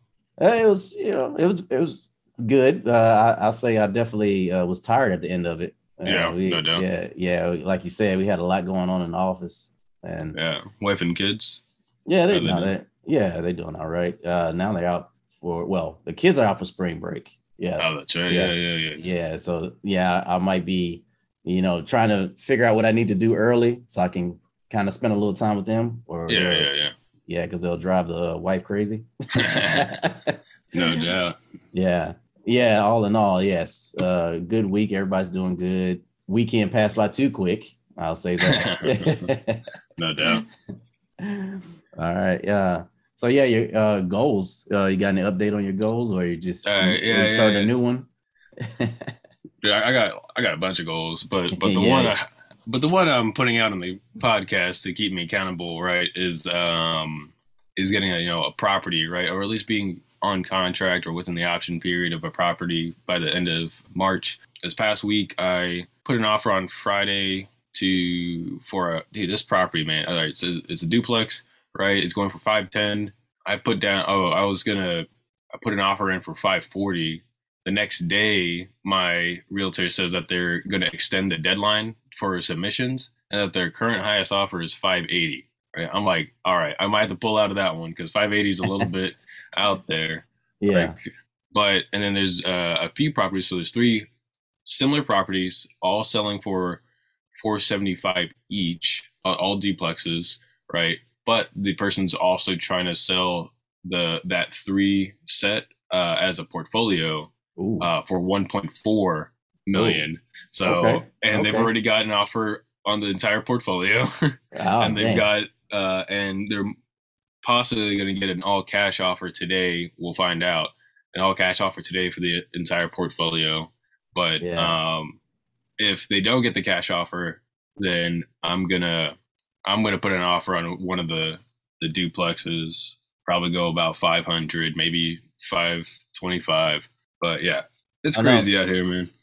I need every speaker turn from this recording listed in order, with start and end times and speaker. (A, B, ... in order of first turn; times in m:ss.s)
0:00.4-0:10.4 A
0:06.0-0:06.8 B
0:10.3-0:11.6 B
0:12.1-0:26.7 A
0:12.3-0:12.7 B
0:17.8-0:19.0 B
0:26.3-0:26.9 B
0:27.3-0:31.0 A
0:29.3-0:29.9 B
0:30.7-0:31.4 B
0:31.7-0:39.6 A
0:38.4-0:39.3 B
0:40.0-0:40.4 B
0:41.2-0:48.1 A
0:46.6-0:47.7 B
0:48.6-0:49.1 A
0:49.6-1:34.1 B
0:51.6-0:52.2 A
1:30.6-1:30.9 A
1:34.6-1:36.8 B
1:37.3-1:56.7 B
1:47.6-1:47.9 A
1:49.7-1:50.0 A
1:50.6-1:51.7 A
1:54.5-1:55.3 A
1:57.4-2:05.2 B
2:04.4-2:04.8 A
2:05.8-2:19.1 B
2:18.1-2:18.5 A